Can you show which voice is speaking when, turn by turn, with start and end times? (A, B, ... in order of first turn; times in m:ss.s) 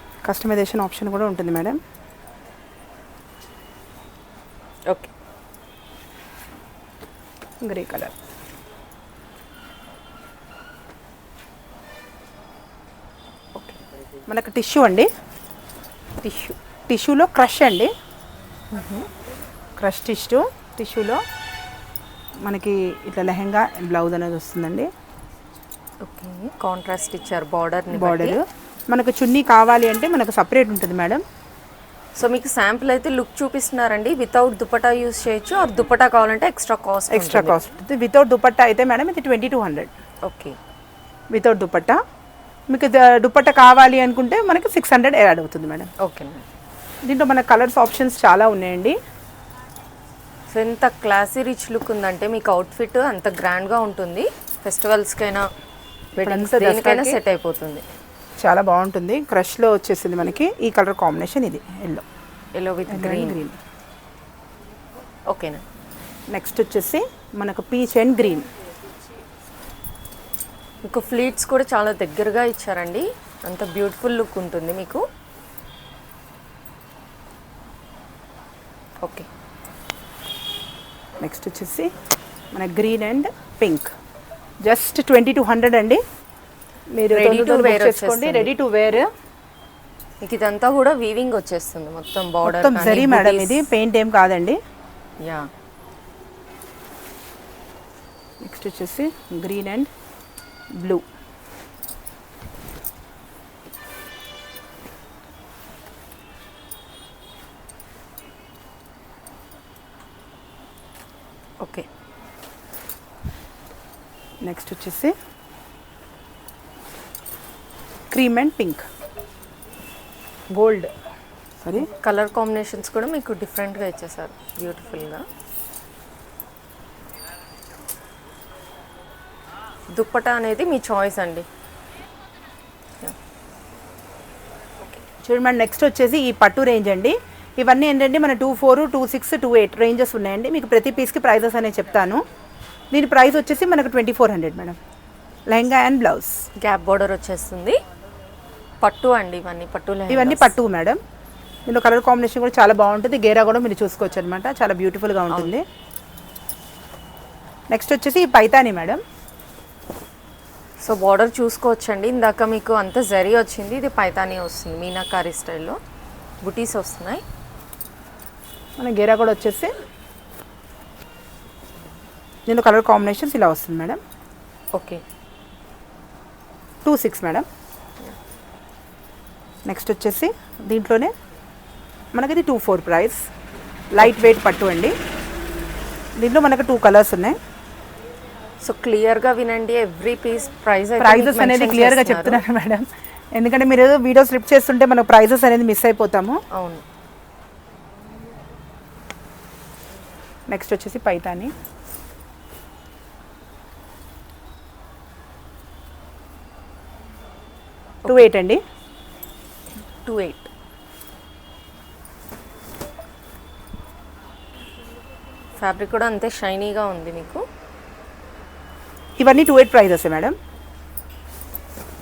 0:00.2-0:01.8 A
0:07.6-0:08.1 A
0:13.6-0:13.8 B
0:14.3-0:15.1 A
0:16.2-0:16.6 B
0:16.9-0:17.9 A
0:18.7-0:19.1 B
0:19.8-0:21.2 A
0:22.4-0:24.9 A
0:26.0-0:28.4 B
0:27.9-0:31.2 A
0:32.2-0:37.6 B
0:37.1-0:39.9 A
0:40.3-0:40.6 B
0:41.3-0:42.0 A
0:42.7-0:45.9 A
0:46.0-0:46.4 B
0:47.0-0:49.0 A
0:50.5-0:55.5 B
0:56.2-0:57.2 A
0:56.2-0:57.8 B
0:58.4-1:02.0 A
1:02.6-1:03.4 B
1:02.9-1:03.6 A
1:05.3-1:05.6 B
1:06.3-1:08.5 A
1:10.9-1:15.0 B
1:21.2-1:21.9 A
1:22.5-1:23.9 A
1:24.6-1:26.0 A
1:26.9-1:29.1 A
1:27.1-1:28.5 B
1:30.2-1:33.7 B
1:32.4-1:34.6 A
1:35.2-1:35.5 B
1:38.4-1:39.9 A
1:40.8-1:41.0 A
1:51.6-1:51.9 B
1:54.4-1:55.1 A
1:58.1-1:58.8 A
2:00.5-2:00.9 A
2:01.6-2:01.9 A
2:01.8-2:05.2 B
2:09.9-2:11.5 B
2:15.2-2:22.2 A
2:22.9-2:24.8 A
2:25.5-2:26.4 A
2:26.6-2:27.8 B
2:28.8-2:30.6 B
2:30.1-2:31.0 A
2:31.7-2:35.6 A
2:37.7-2:39.0 A
2:40.8-2:45.8 B
2:46.4-2:47.2 B
2:48.8-2:49.7 A
2:52.5-2:54.0 A
2:54.8-2:55.0 B
2:56.8-2:57.5 A
2:59.7-3:01.1 A
3:02.1-3:03.2 A
3:03.9-3:05.0 A
3:04.0-3:04.3 B
3:06.2-3:07.4 A
3:08.6-3:12.4 B
3:11.0-3:16.4 A
3:16.5-3:16.8 B
3:20.5-3:21.5 A
3:28.1-3:28.6 A
3:30.0-3:30.5 B
3:35.6-3:37.4 B
3:39.2-3:40.4 A